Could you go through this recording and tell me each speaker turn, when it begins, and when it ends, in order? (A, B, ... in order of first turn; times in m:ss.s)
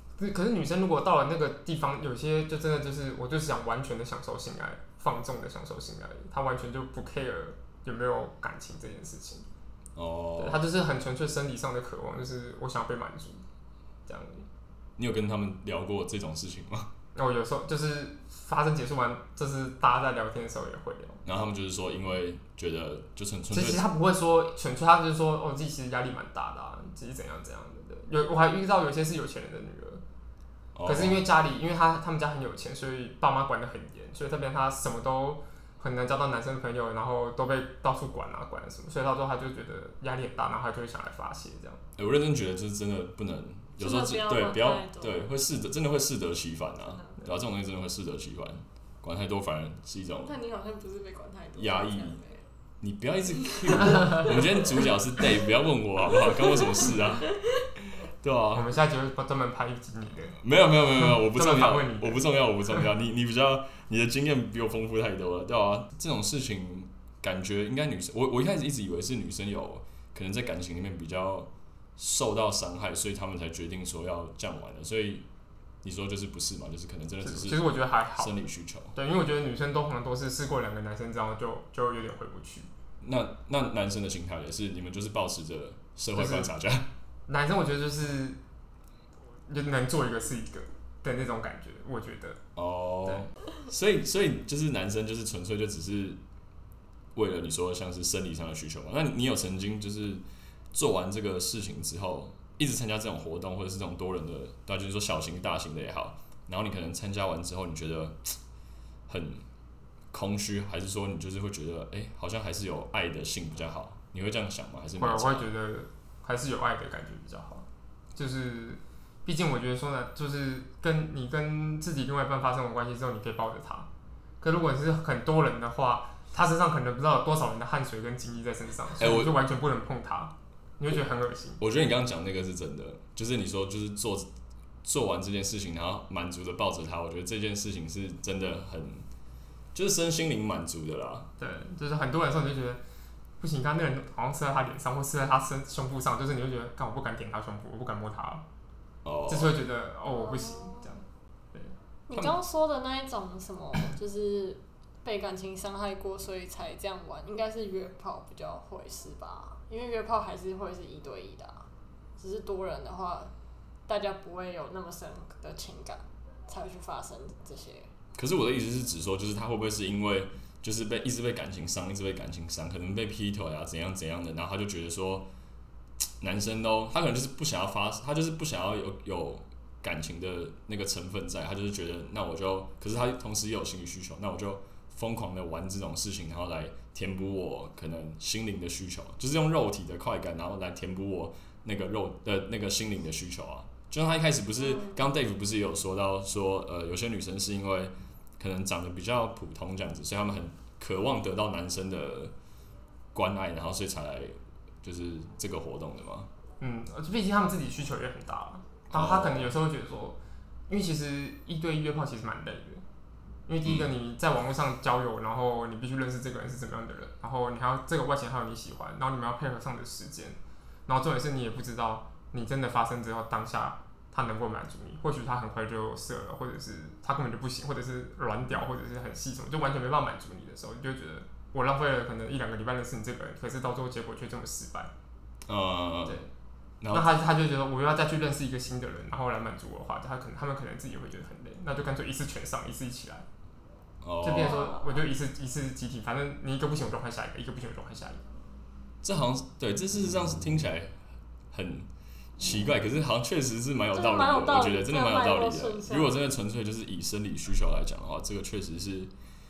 0:00.2-0:09.5 A
0:10.0-0:10.6 B
0:10.4-0:13.4 A
0:14.1-0:14.5 A
0:15.0-0:16.9 B
0:17.2-0:21.2 A
0:21.3-0:23.9 B
0:23.5-0:30.0 A
0:30.8-0:31.2 B
0:30.8-0:41.8 A
0:42.0-0:50.3 B
0:43.8-0:45.3 C
0:46.8-0:47.2 C
0:50.2-0:52.4 C
0:51.6-0:52.2 B
0:52.8-0:57.3 B
0:56.4-0:56.9 C
0:58.2-0:58.7 B
0:58.5-1:00.4 A
1:00.4-1:15.3 B
1:01.0-1:02.9 A
1:15.8-1:19.0 B
1:17.2-1:18.4 A
1:19.0-1:22.7 A
1:23.0-1:26.9 B
1:26.1-1:26.5 A
1:27.3-1:28.4 A
1:29.5-1:32.4 A
1:32.6-1:36.2 B
1:37.2-1:48.4 B
1:49.1-1:49.4 B
1:50.1-1:55.5 B
1:55.0-1:57.6 A
1:58.2-2:03.9 A
2:04.4-2:11.6 A
2:09.0-2:09.4 B
2:11.6-2:14.3 B
2:14.8-2:19.1 B
2:19.8-2:21.3 B
2:21.4-2:22.8 A
2:23.4-2:28.4 A
2:29.0-2:29.6 B
2:29.3-2:32.3 A
2:30.1-2:30.9 C
2:32.1-2:43.3 C
2:43.9-2:47.9 C
2:48.2-2:55.3 B
2:56.2-3:22.3 B
3:23.1-3:26.3 B
3:26.6-3:30.2 A
3:28.9-3:29.5 B
3:30.7-3:32.8 A
3:33.5-3:54.9 A
3:33.6-3:33.9 B
3:55.5-3:56.2 B
3:56.8-3:57.1 B
3:56.9-4:03.3 A
4:04.0-4:04.6 B
4:04.2-4:08.2 A
4:04.3-4:05.0 C
4:09.0-4:11.0 B
4:11.5-4:19.1 B
4:13.9-4:16.3 C